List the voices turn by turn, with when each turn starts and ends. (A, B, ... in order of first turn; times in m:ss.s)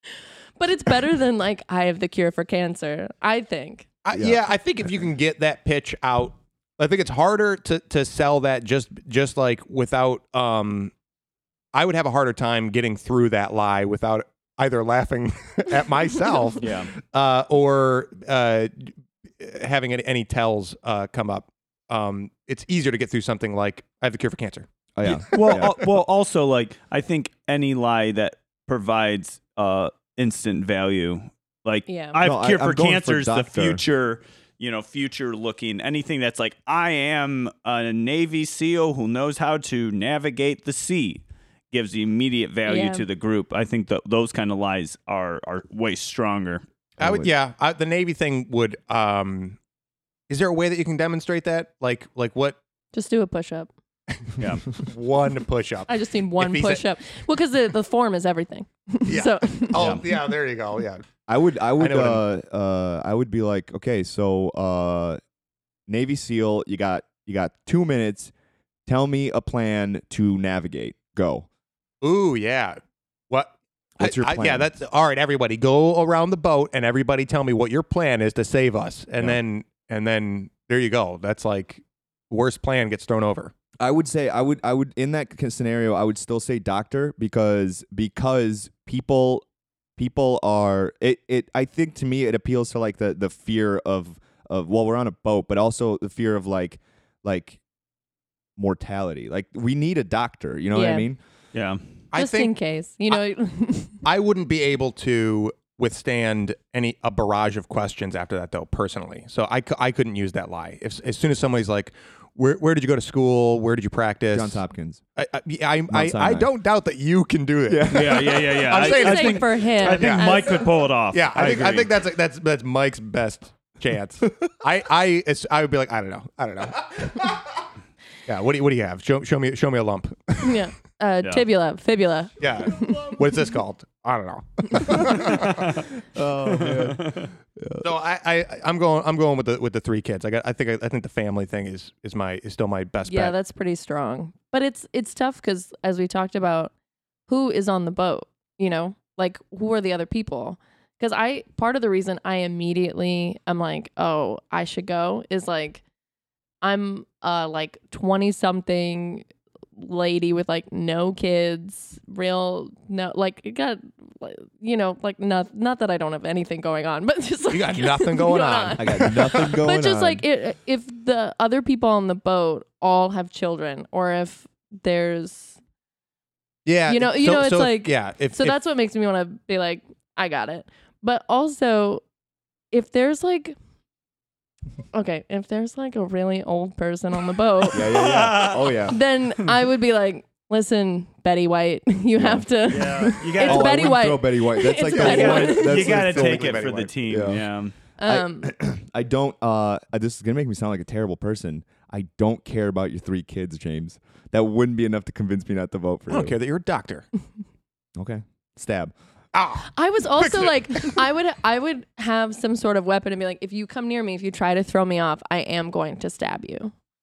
0:00.6-0:03.9 A
0:04.0-0:10.9 B
0:11.7-0:24.7 B
0:16.6-0:16.9 C
0:25.0-0:25.8 D
0:25.1-0:46.6 C
0:25.3-0:25.7 B
0:31.9-0:32.2 A
0:32.2-0:33.8 D
0:42.7-0:43.1 A
0:47.0-0:47.3 D
0:47.0-0:49.6 B
0:50.3-0:52.6 B
0:52.9-0:53.7 A
0:54.7-0:56.9 B
0:55.9-1:00.0 A
0:59.1-1:01.0 B
0:59.8-1:00.0 C
1:01.3-1:05.2 D
1:01.8-1:02.2 B
1:05.9-1:08.3 D
1:08.9-1:11.5 D
1:12.0-1:12.8 B
1:13.3-1:23.5 B
1:14.0-1:14.7 D
1:23.8-1:29.4 D
1:30.0-1:37.6 D
1:38.6-1:41.2 D
1:40.7-1:41.1 A
1:41.5-1:41.8 C
1:42.1-1:42.5 B
1:42.2-1:44.0 A
1:44.0-1:54.6 B
1:54.3-1:55.0 D
1:55.2-2:07.4 B
1:55.9-1:56.5 D
1:57.7-1:58.6 D
1:57.9-2:01.9 C
1:58.8-2:00.7 A
2:08.3-2:10.6 B
2:10.4-2:13.2 A
2:12.4-2:15.8 B
2:15.0-2:15.4 D
2:15.4-2:15.8 C
2:16.1-2:17.8 D
2:16.5-2:17.3 C
2:17.8-2:23.3 B
2:23.1-2:26.7 A
2:27.3-2:35.8 A
2:36.6-2:39.3 A
2:39.8-2:55.6 A
2:47.5-2:49.6 B
2:48.8-2:50.2 D
2:56.7-2:58.6 B
2:56.9-3:02.0 A
3:02.7-3:03.6 A
3:04.9-3:08.1 A
3:07.7-3:09.0 D
3:07.9-3:08.7 C
3:08.8-3:15.9 A
3:12.2-3:17.5 D
3:12.7-3:14.0 C
3:14.9-3:16.9 B
3:15.0-3:17.7 C
3:18.0-3:18.5 A
3:18.0-3:26.4 D
3:26.1-3:27.1 B
3:28.0-3:28.9 D
3:29.3-3:31.0 B
3:29.7-3:36.7 A